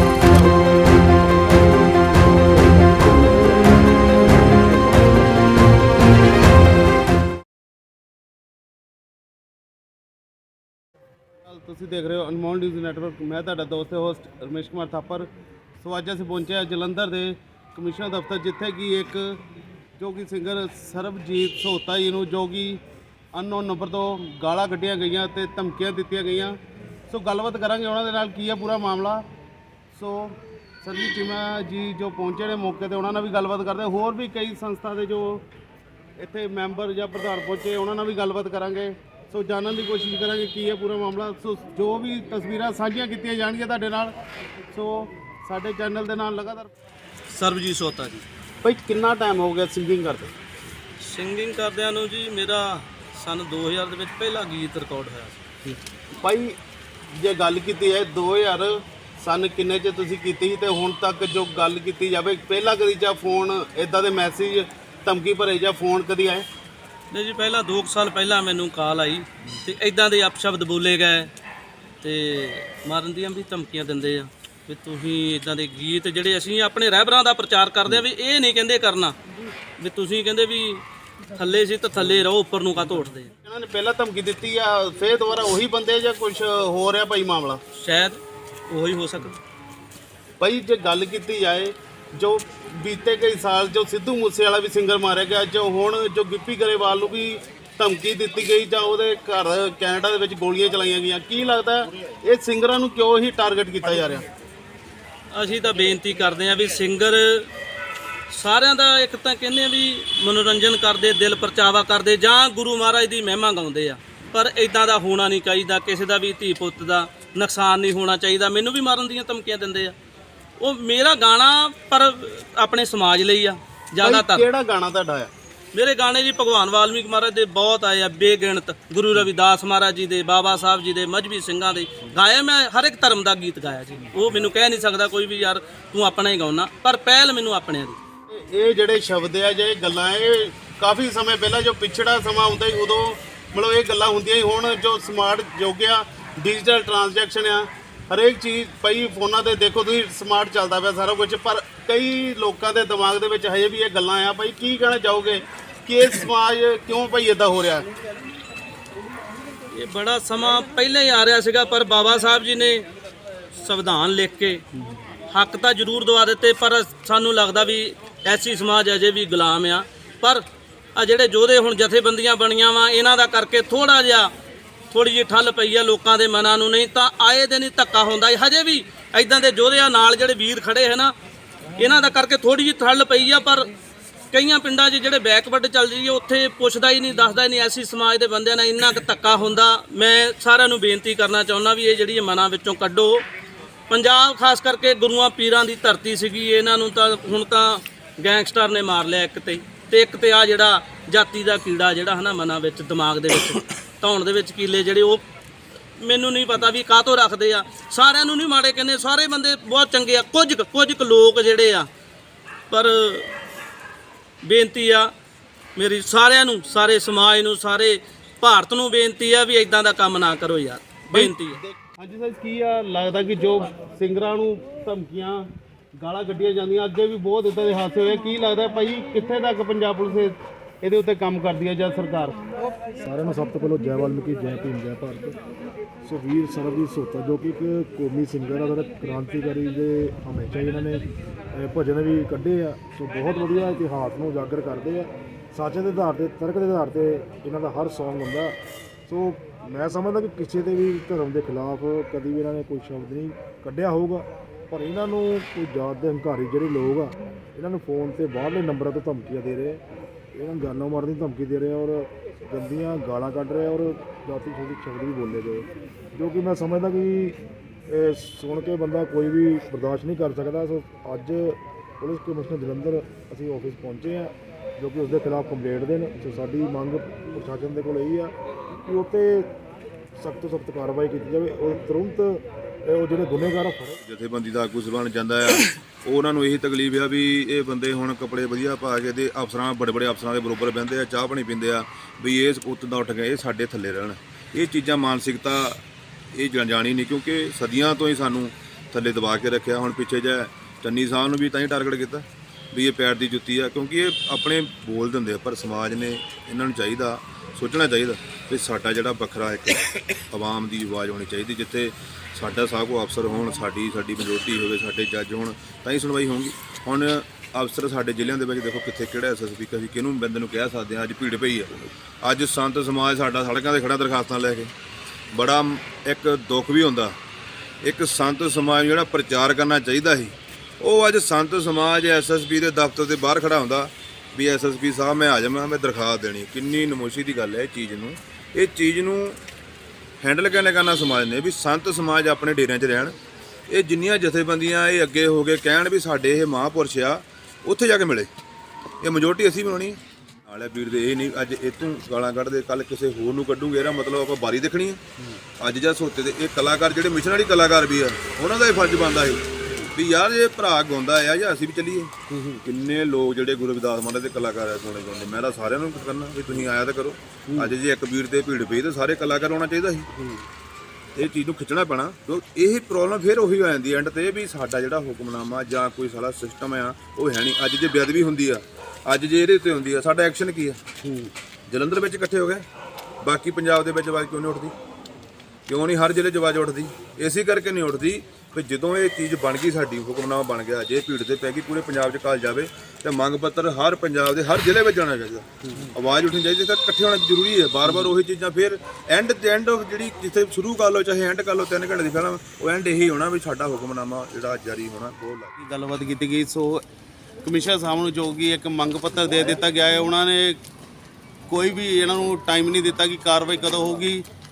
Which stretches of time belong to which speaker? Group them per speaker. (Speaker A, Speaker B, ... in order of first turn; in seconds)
Speaker A: 0.2-5.8, 233.0-235.4, 236.0-248.6, 249.1-259.8, 260.3-279.5, 280.2-284.0
Speaker B: 11.4-15.3, 15.8-19.4, 20.0-22.8, 23.3-26.6, 27.1-29.3, 29.9-35.4, 36.2-44.1, 44.7-46.7, 48.6-50.3, 56.2-56.5, 57.1-66.5, 83.4-87.6, 90.4-104.2, 124.0-125.3, 138.3-157.9, 221.1-232.4, 362.3-362.6, 367.5-367.7, 370.1-370.4, 381.0-381.3, 395.6-395.9, 397.8-398.1, 405.6-406.8, 407.4-410.6, 411.5-414.2
Speaker C: 47.3-48.2, 51.0-55.4, 67.1-71.3, 72.0-79.2, 79.8-80.8, 81.3-83.3, 87.7-89.4, 105.3-107.5, 108.3-120.0, 120.6-124.5, 125.7-138.0, 159.7-162.8, 163.5-164.6, 165.3-170.4, 170.9-174.3, 174.9-181.1, 181.8-183.7, 184.3-193.2, 193.9-205.2, 206.0-211.9, 212.7-213.3, 214.4-215.1, 215.8-221.6
Speaker D: 284.0-295.8, 296.3-324.7, 325.3-327.1, 327.8-339.4, 340.2-343.1, 343.7-348.3, 349.0-355.0, 355.6-362.1, 362.6-370.1, 371.1-380.8, 381.7-382.6, 383.2-384.7, 385.7-405.5